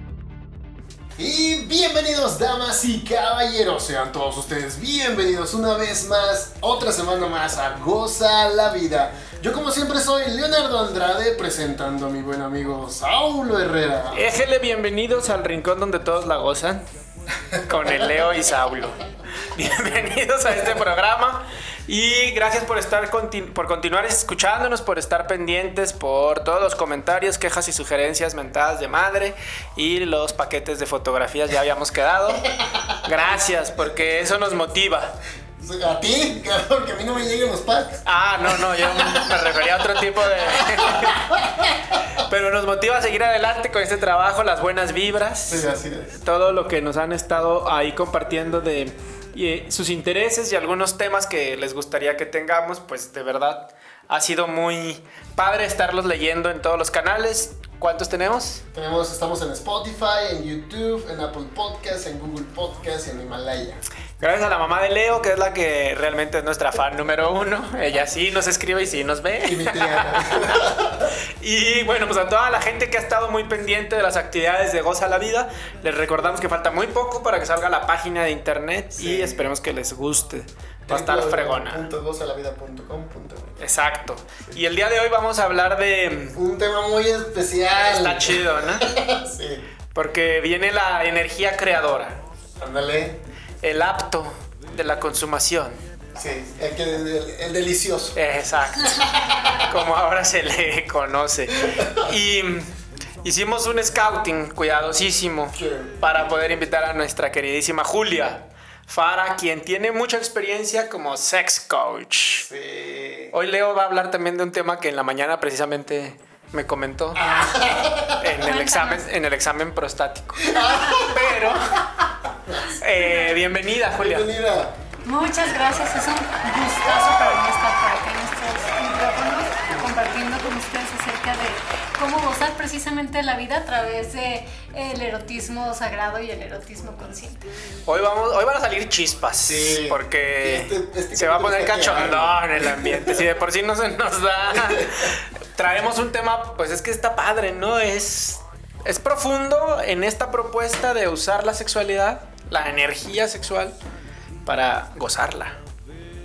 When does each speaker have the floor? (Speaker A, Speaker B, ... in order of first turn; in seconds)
Speaker A: 1.2-14.2, 32.6-33.0, 35.6-39.4, 40.5-42.0, 45.5-46.2, 58.7-63.8, 69.4-71.1, 79.0-79.5, 80.9-83.6, 86.3-89.7, 92.6-93.2, 96.2-98.2, 98.8-99.7, 105.5-106.0, 112.4-113.3, 117.1-118.4, 120.4-121.4, 124.0-124.8, 139.4-143.3, 144.5-144.9
Speaker B: 14.1-16.8, 17.6-35.1, 38.1-45.7, 46.2-58.6, 64.2-81.9, 83.6-86.4, 87.8-89.0, 90.0-92.2, 93.6-95.8, 98.2-102.7, 103.2-112.5, 113.3-117.3, 118.2-121.8, 122.7-124.3, 137.9-153.7, 154.5-155.6
Speaker C: 118.4-119.1, 123.0-123.4, 125.0-137.5